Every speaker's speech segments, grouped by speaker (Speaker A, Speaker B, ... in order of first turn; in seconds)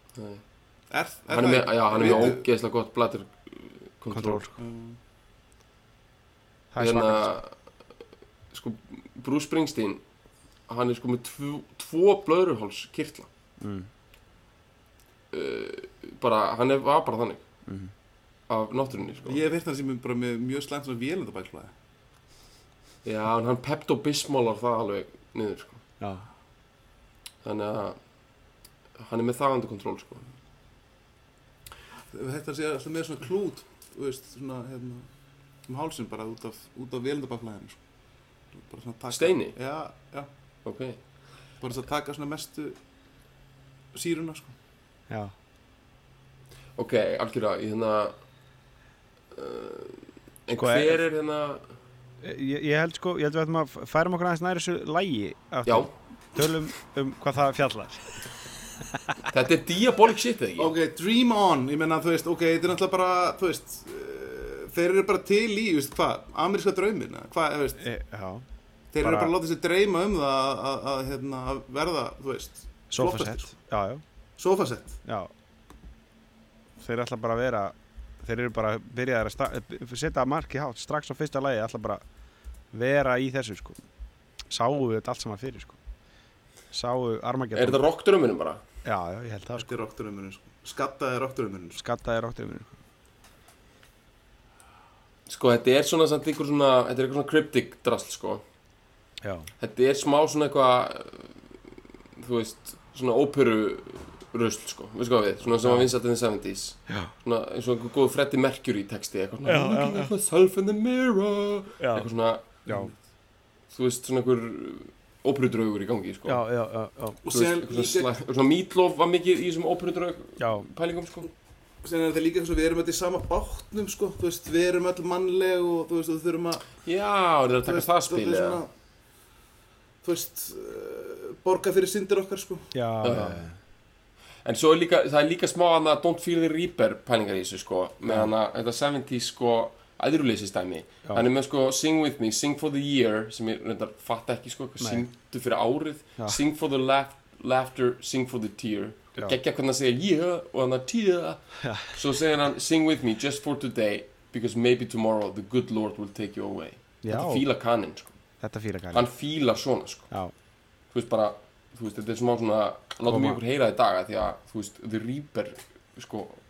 Speaker A: 0.1-0.4, 1.3-4.5, 6.8-7.6, 8.5-10.0, 10.7-13.3, 15.3-17.4, 18.5-19.4, 23.0-25.8, 27.4-28.0, 29.0-30.2, 39.1-39.5, 40.6-41.0, 46.8-48.1, 49.3-51.6, 55.6-55.9, 59.3-60.7, 87.5-88.6, 95.3-98.4, 99.6-101.3, 102.2-112.4, 113.7-116.4, 117.3-121.3, 126.8-128.6, 133.0-133.4, 134.4-158.1, 158.9-160.1, 160.9-166.4
Speaker B: 0.9-2.5, 4.6-5.0, 19.2-21.7, 32.1-35.1, 35.6-37.8, 38.5-40.3, 41.6-42.8, 43.9-44.5, 60.6-67.8, 68.9-73.5, 74.4-75.0, 89.6-91.8, 117.2-118.1, 121.8-126.7, 127.6-128.7, 130.0-132.7
Speaker C: 4.1-4.5, 6.7-7.3, 13.6-13.9, 17.6-17.9, 26.0-26.2, 50.6-51.0, 52.2-58.2, 58.8-59.2, 67.8-68.4, 69.0-69.3, 72.9-74.0, 75.0-75.3, 76.8-82.0, 82.7-83.8, 84.5-85.8, 86.7-87.8, 88.8-89.7, 91.8-92.7, 99.2-99.5, 105.6-105.9, 109.5-110.1, 111.8-112.1, 112.7-112.9, 116.2-117.2, 120.4-120.6, 132.7-133.6, 144.8-145.1, 151.6-152.0, 157.0-157.4, 158.4-159.1, 163.1-163.4